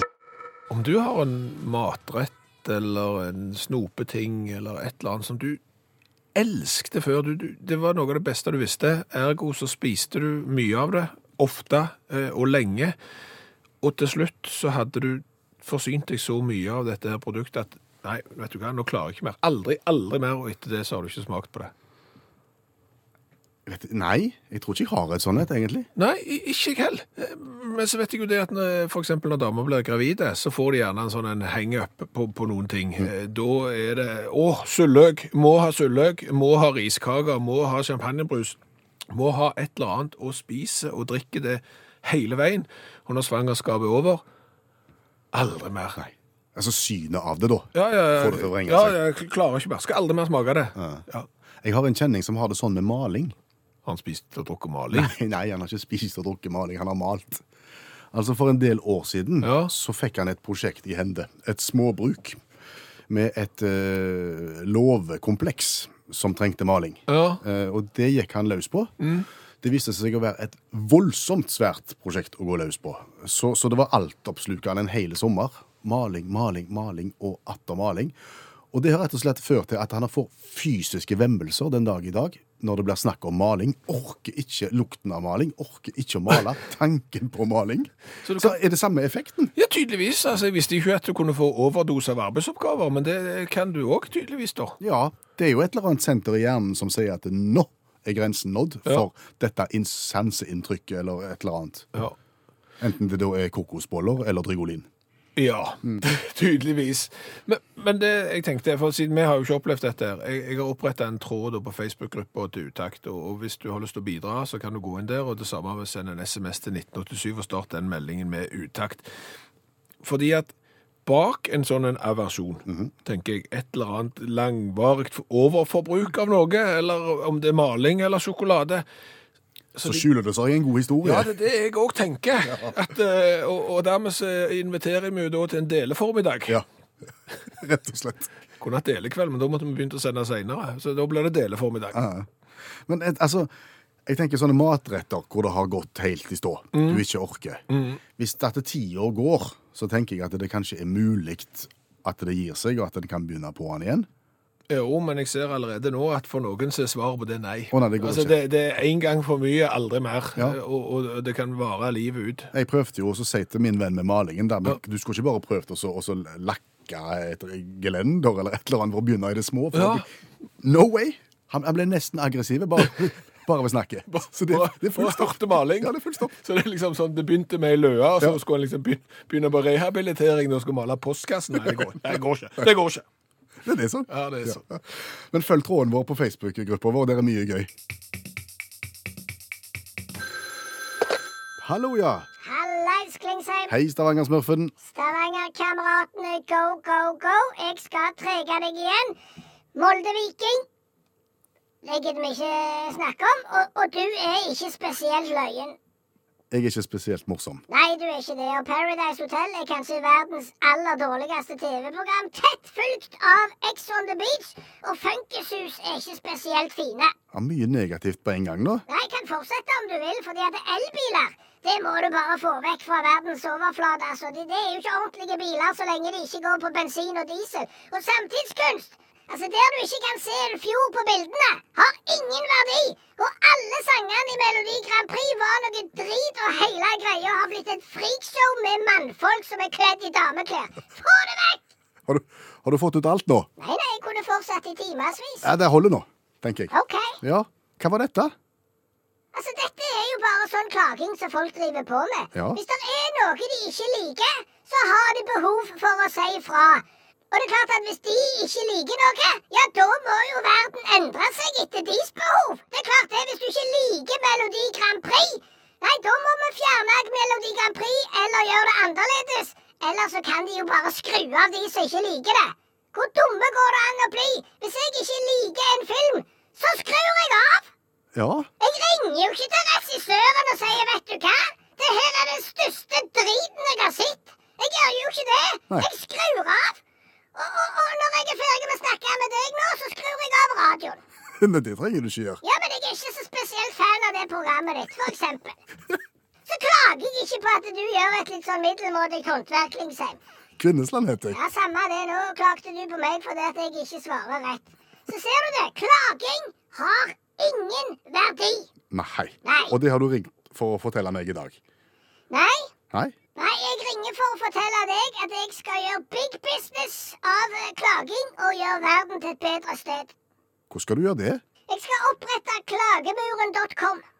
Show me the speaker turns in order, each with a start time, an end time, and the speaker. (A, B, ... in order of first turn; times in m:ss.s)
0:00.7-0:05.6 A
0:06.4-0:13.0 A
0:13.8-0:21.7 A
0:23.7-0:25.9 B
0:26.0-0:38.6 A
0:39.1-0:44.2 A
0:45.3-0:46.0 A
0:46.0-0:49.0 B
0:47.7-0:51.3 A
0:50.8-0:51.0 B
0:51.6-0:53.4 B
0:53.9-0:55.1 A
0:54.9-0:57.4 B
0:58.1-1:02.4 B
0:59.4-0:59.7 A
1:03.1-1:08.9 B
1:07.1-1:07.4 A
1:09.0-1:09.3 A
1:09.6-1:18.2 B
1:18.7-1:29.5 B
1:28.2-1:28.6 A
1:29.6-1:34.8 A
1:34.8-1:41.9 B
1:42.8-1:44.9 B
1:45.4-1:59.1 A
2:00.0-2:00.5 A
2:01.0-2:08.8 A
2:02.7-2:02.9 B
2:09.8-2:10.1 A
2:09.8-2:11.3 B
2:11.0-2:16.6 A
2:17.5-2:18.3 B
2:18.6-2:22.0 A
2:21.9-2:22.3 B
2:22.9-2:23.5 B
2:24.1-2:27.6 B
2:26.7-2:27.0 A
2:27.7-2:28.0 A
2:28.2-2:34.1 B
2:34.7-2:42.5 A
2:37.7-2:38.4 B
2:42.5-2:50.1 B
2:49.7-2:50.0 A
2:50.6-2:56.3 B
2:54.1-3:03.0 A
3:03.6-3:07.7 B
3:04.1-3:04.6 A
3:11.6-3:12.3 B
3:12.4-3:13.7 C
3:13.7-3:14.7 B
3:14.8-3:19.2 C
3:19.8-3:20.6 C
3:21.8-3:25.8 C
3:26.5-3:27.6 B
3:27.7-3:37.1 C
3:37.3-3:38.9 B
3:38.9-4:01.6 C
4:02.1-4:03.5 B
4:03.6-4:05.5 C
4:05.4-4:08.3 B
4:06.7-4:07.2 C
4:09.3-4:37.7 C
4:12.3-4:12.6 B
4:38.2-4:38.5 B
4:38.6-4:46.8 C
4:47.4-4:51.0 C
4:51.4-4:52.4 B
4:52.4-4:55.6 C
4:56.5-5:00.2 C
5:00.6-5:01.4 B
5:01.3-5:08.7 C
5:08.9-5:11.6 B
5:09.4-5:09.8 C
5:12.3-5:12.7 C
5:13.4-5:20.1 C
5:20.7-5:21.4 B
5:21.7-5:24.0 C